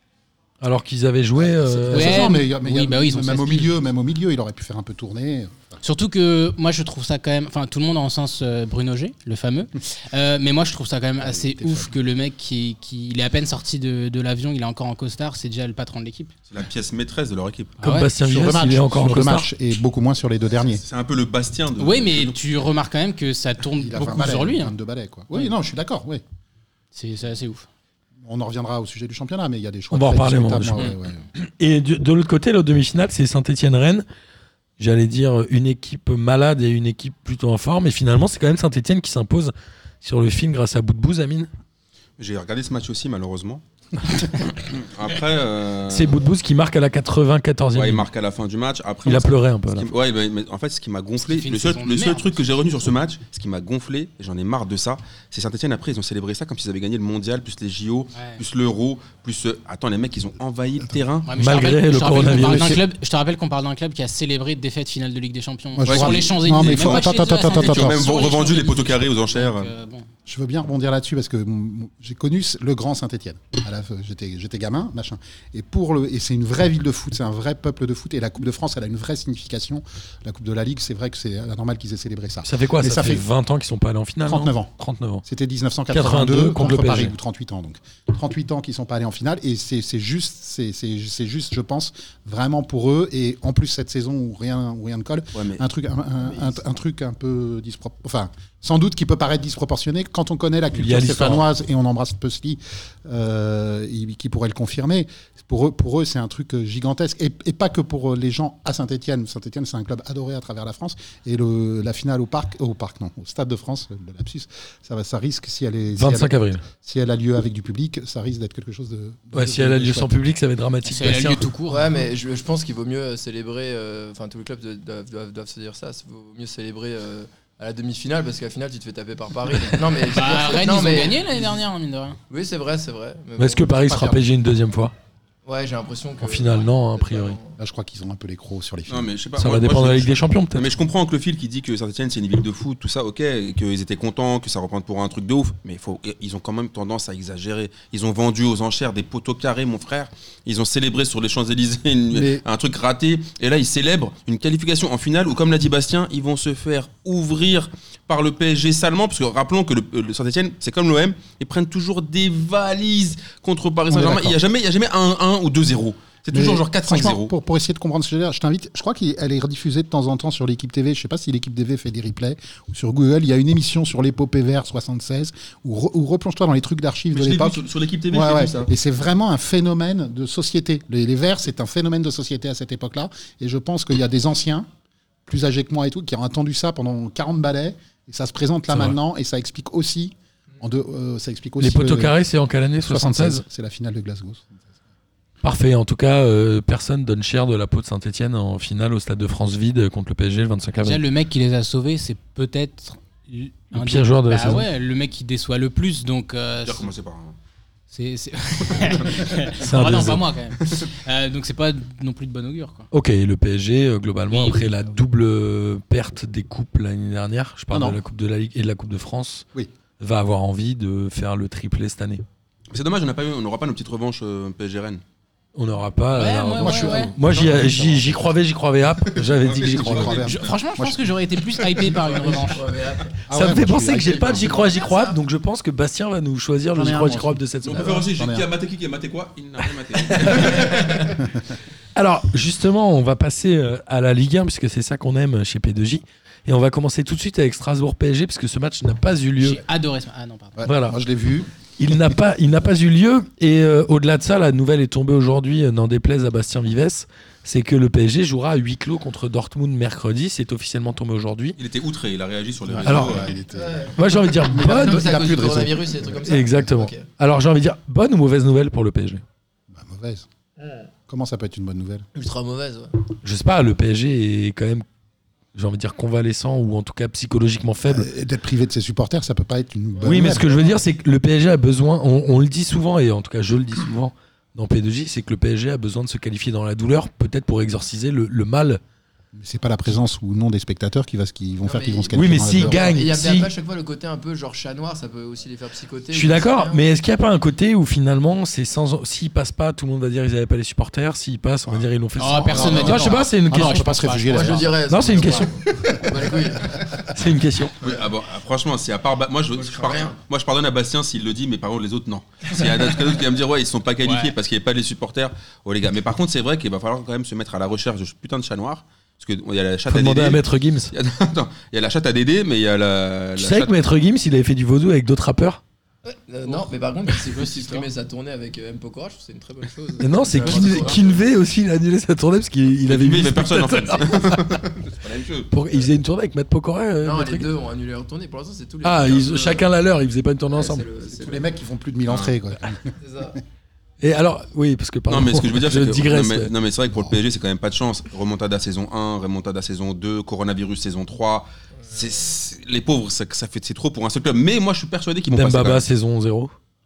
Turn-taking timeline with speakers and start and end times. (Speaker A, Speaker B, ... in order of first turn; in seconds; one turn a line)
Speaker A: 0.6-2.3
Speaker B: 1.4-5.8
Speaker C: 1.9-3.7
Speaker C: 5.8-16.3
Speaker B: 11.2-11.9
Speaker D: 16.5-17.8
Speaker C: 17.8-18.1
Speaker A: 17.8-19.5
Speaker B: 18.2-20.8
Speaker D: 20.7-22.4
Speaker C: 21.8-24.7
Speaker B: 23.7-26.2
Speaker C: 26.9-27.7
Speaker B: 28.2-31.3
Speaker A: 29.9-34.0
Speaker A: 34.8-41.5
Speaker D: 42.2-46.2
Speaker A: 45.9-48.1
Speaker D: 47.8-61.4
Speaker A: 49.0-49.9
Speaker C: 51.2-52.6
Speaker C: 58.1-58.4
Speaker C: 61.3-70.1
Speaker A: 61.3-62.8
Speaker B: 62.3-62.7
Speaker B: 65.8-68.1
Speaker D: 65.9-69.7
Speaker B: 70.3-83.2
Speaker A: 82.5-85.2
Speaker B: 84.3-84.7
Speaker B: 85.2-120.1
Speaker A: 85.9-87.1
Speaker D: 95.3-95.6
Speaker A: 100.8-101.5
Speaker A: 116.0-116.6
Speaker A: 119.3-121.5
Speaker C: 120.8-122.1
Speaker E: 121.7-131.2
Speaker C: 130.1-132.2
Speaker E: 132.3-133.8
Speaker A: 133.4-134.9
Speaker B: 133.9-134.2
Speaker E: 135.5-137.6
Speaker A: 136.2-137.4
Speaker B: 137.6-139.1
Speaker D: 138.9-167.3
Speaker A: 139.4-140.7
Speaker B: 152.1-152.4
Speaker B: 163.9-164.4
Speaker B: 166.3-184.7
Speaker D: 177.1-178.7
Speaker B: 185.3-192.2
Speaker A: 188.7-189.0
Speaker A: 191.6-193.4
Speaker B: 192.9-194.5
Speaker A: 195.4-201.0
Speaker C: 200.8-206.9
Speaker A: 203.7-204.7
Speaker D: 206.6-207.4
Speaker C: 207.9-212.9
Speaker D: 208.8-209.3
Speaker A: 209.6-210.3
Speaker A: 212.9-219.5
Speaker C: 214.3-214.7
Speaker B: 217.7-218.0
Speaker A: 220.0-222.2
Speaker D: 222.7-225.0
Speaker A: 225.6-230.1
Speaker C: 226.1-227.2
Speaker B: 226.6-228.3
Speaker D: 229.2-230.6
Speaker C: 229.5-232.7
Speaker B: 229.6-232.5
Speaker E: 232.0-233.2
Speaker B: 233.3-234.7
Speaker A: 233.3-238.0
Speaker E: 233.8-235.2
Speaker B: 236.7-238.5
Speaker D: 237.6-241.3
Speaker A: 240.0-241.1
Speaker A: 241.9-249.6
Speaker C: 249.4-250.6
Speaker B: 250.6-251.5
Speaker A: 250.7-251.0
Speaker A: 251.8-261.6
Speaker D: 261.6-263.3
Speaker B: 262.6-266.1
Speaker A: 262.8-263.2
Speaker E: 263.5-267.1
Speaker A: 263.9-265.5
Speaker A: 266.2-269.2
Speaker B: 269.7-270.3
Speaker B: 271.1-272.1
Speaker E: 272.1-273.0
Speaker A: 273.2-274.9
Speaker A: 275.5-278.1
Speaker B: 277.9-280.6
Speaker A: 280.0-288.8
Speaker B: 289.4-292.9
Speaker E: 291.6-296.8
Speaker A: 292.1-293.5
Speaker A: 296.1-304.1
Speaker C: 302.2-304.7
Speaker B: 302.5-307.0
Speaker E: 304.3-307.0
Speaker A: 304.9-306.0
Speaker A: 307.1-307.8
Speaker D: 307.8-323.8
Speaker E: 309.5-310.2
Speaker C: 314.0-314.3
Speaker A: 319.9-320.9
Speaker A: 323.4-325.6
Speaker E: 326.1-331.2
Speaker C: 326.5-327.9
Speaker A: 330.0-334.6
Speaker C: 330.3-331.0
Speaker D: 332.9-335.6
Speaker A: 335.5-337.5
Speaker E: 337.0-339.7
Speaker A: 338.8-340.9
Speaker E: 340.5-341.6
Speaker B: 341.1-342.9
Speaker D: 342.1-342.4
Speaker E: 343.0-343.4
Speaker A: 344.0-346.5
Speaker D: 345.1-355.9
Speaker A: 355.3-356.5